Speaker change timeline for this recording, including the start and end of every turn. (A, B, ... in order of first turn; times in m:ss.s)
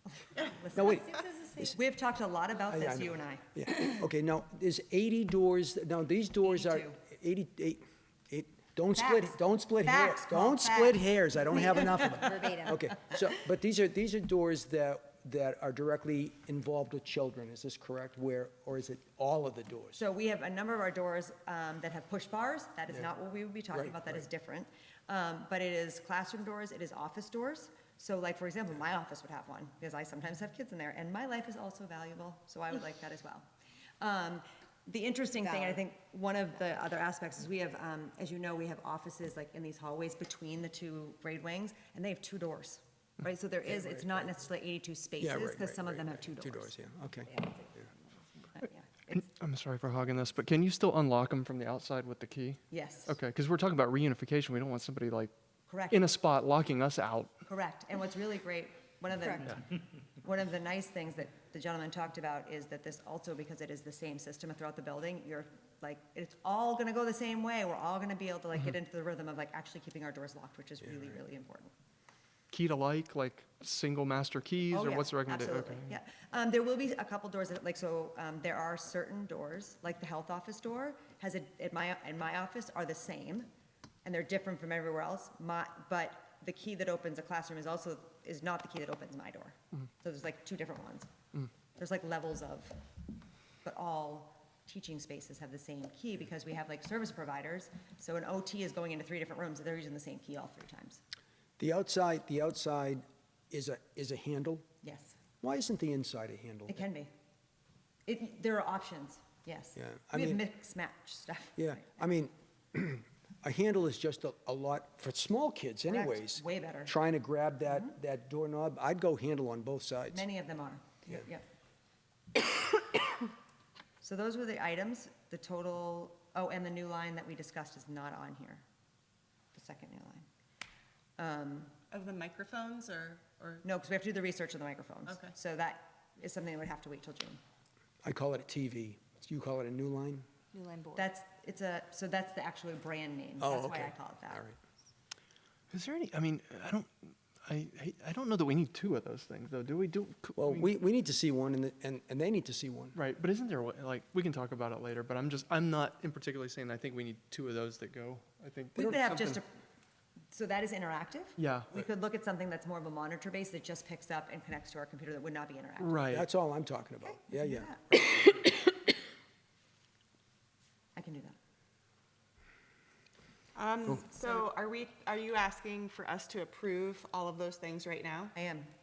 0:00.2-0:03.5 A
0:00.8-0:01.1 B
0:02.7-0:20.0 B
0:06.5-0:07.0 A
0:09.0-0:11.0 A
0:20.0-0:33.5 A
0:23.7-0:24.2 B
0:34.0-0:46.7 A
0:45.2-0:47.8 B
0:48.6-0:49.3 A
0:49.2-0:55.3 C
0:52.7-0:53.1 A
0:55.7-0:56.0 A
0:55.9-0:57.3 C
0:57.5-1:11.7 A
1:12.5-1:16.0 C
1:14.7-1:23.5 A
1:24.0-1:31.1 A
1:31.8-1:32.8 A
1:33.6-1:41.0 A
1:41.6-1:44.7 B
1:44.8-1:45.2 A
1:45.4-1:46.8 B
1:46.7-1:47.1 A
1:48.1-1:51.9 A
1:49.8-1:50.4 B
1:51.6-2:00.2 B
1:55.9-1:56.9 A
2:00.1-2:01.4 A
2:04.0-2:08.6 A
2:09.5-2:10.3 A
2:11.2-2:11.7 A
2:11.9-2:13.6 D
2:13.6-2:17.4 A
2:18.0-2:20.2 B
2:20.5-2:21.1 D
2:21.0-2:24.5 A
2:23.4-2:24.6 B
2:25.7-2:30.7 C
2:30.4-2:33.0 B
2:33.0-2:39.4 C
2:38.8-2:39.5 A
2:40.3-2:46.1 A
2:41.4-2:41.7 C
2:45.8-2:46.3 C
2:46.1-2:48.3 B
2:47.1-2:48.0 A
2:51.0-2:51.4 A
2:53.6-2:58.3 D
2:58.4-2:58.7 A